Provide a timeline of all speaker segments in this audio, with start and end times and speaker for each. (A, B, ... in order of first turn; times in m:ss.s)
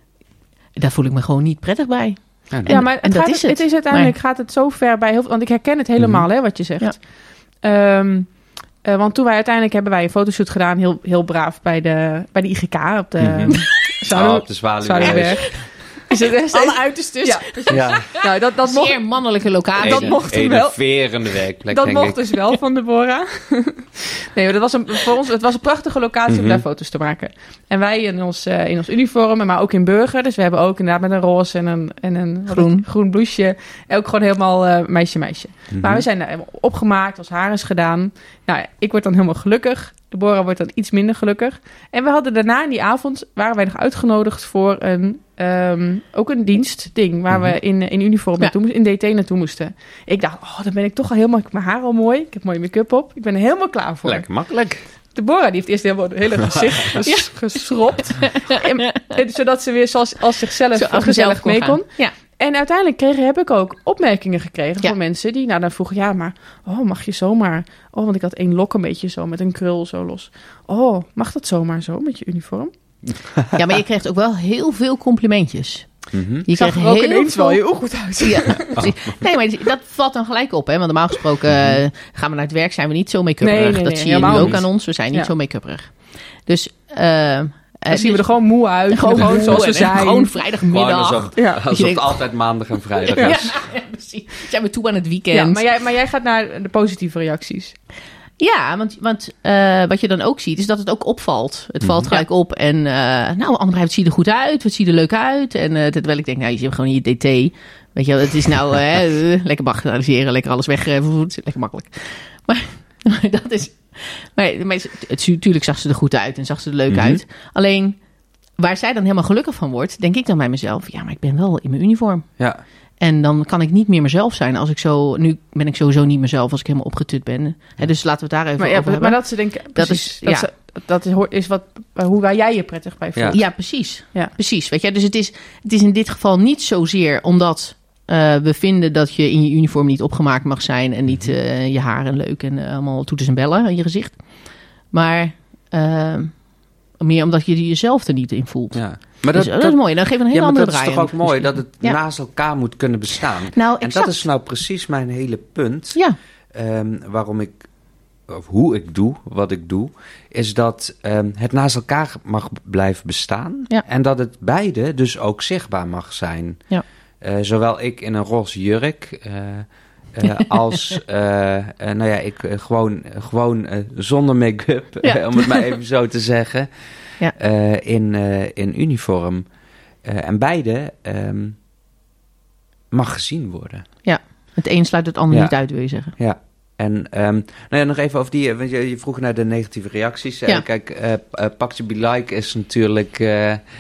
0:00.8-0:04.2 A
0:02.5-0:02.8 B
0:02.7-0:19.0 C
0:06.0-0:06.2 B
0:13.2-0:13.6 B
0:14.1-0:15.7 B
0:15.0-0:20.2 A
0:17.7-0:18.1 B
0:19.8-0:20.8 C
0:19.8-0:22.3 B
0:21.7-0:54.3 C
0:26.3-0:26.6 B
0:32.5-0:32.9 A
0:35.7-0:36.0 B
0:47.3-0:47.6 B
0:54.0-0:54.8 B
0:55.1-1:12.7 C
0:57.0-0:57.5 A
0:58.2-0:59.2 A
1:00.8-1:02.1 A
1:13.5-1:17.6 A
1:16.1-1:16.5 B
1:16.5-1:18.9 C
1:18.2-1:32.2 A
1:21.5-1:21.8 B
1:23.4-1:25.3 C
1:24.2-1:24.6 B
1:27.9-1:30.3 C
1:30.7-1:33.7 B
1:32.9-1:35.6 A
1:33.2-1:33.5 C
1:35.3-1:37.8 C
1:38.4-1:58.0 A
1:41.8-1:42.2 B
1:56.9-1:57.2 B
1:58.6-2:02.3 A
2:03.0-2:10.5 A
2:08.6-2:14.3 C
2:13.3-2:24.2 A
2:21.1-2:21.4 B
2:24.9-2:26.4 A
2:27.0-2:32.0 A
2:28.7-2:36.0 B
2:33.5-2:34.1 A
2:36.5-2:37.6 B
2:38.3-2:46.6 B
2:47.2-2:56.7 B
2:50.7-2:51.0 A
2:55.0-2:55.8 A
2:57.3-2:59.4 B
3:00.0-3:01.6 B
3:02.9-3:03.9 B
3:04.0-3:06.2 A
3:05.3-3:05.6 B
3:06.2-3:13.6 B